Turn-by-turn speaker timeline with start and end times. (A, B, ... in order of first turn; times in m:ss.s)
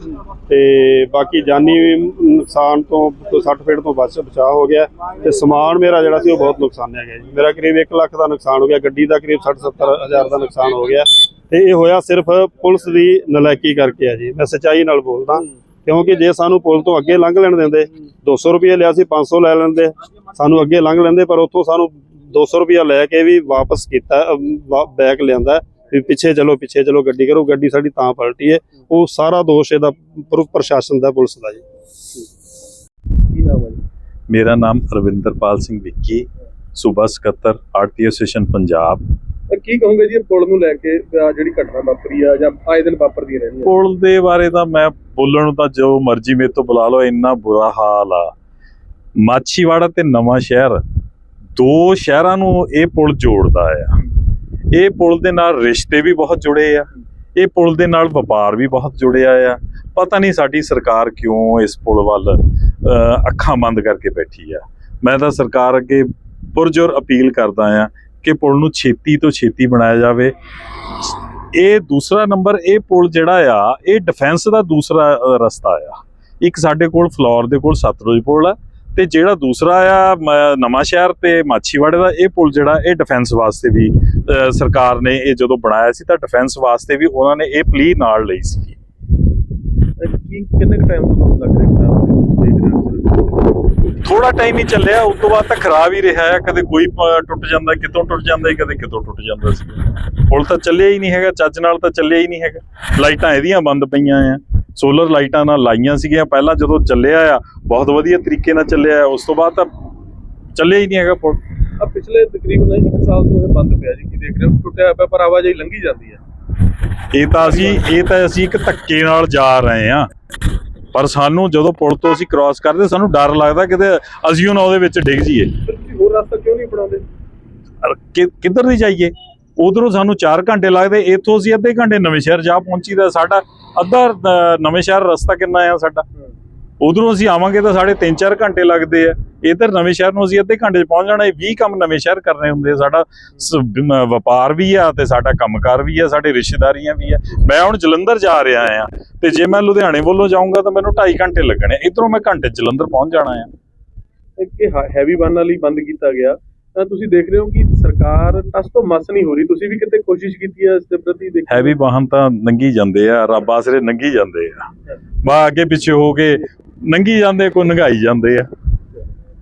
0:00.5-0:31.6 A
0:33.3-0:33.8 B
0:34.3-0:39.0 C
0:39.5-0:43.7 B
0:43.6-0:48.3 C
0:49.2-0:50.8 C
0:51.6-0:54.0 C
0:54.7-1:10.3 C
1:11.0-1:28.8 C
1:30.0-1:33.2 B
1:34.0-1:49.7 C
1:50.5-1:51.4 C
1:51.8-1:56.2 B
1:57.1-2:00.1 C
1:57.4-1:57.8 B
2:00.9-2:05.5 C
2:05.6-2:07.0 B
2:07.8-2:16.0 C
2:16.8-2:33.5 C
2:34.4-2:41.8 B
2:41.5-2:44.7 C
2:45.2-2:48.5 C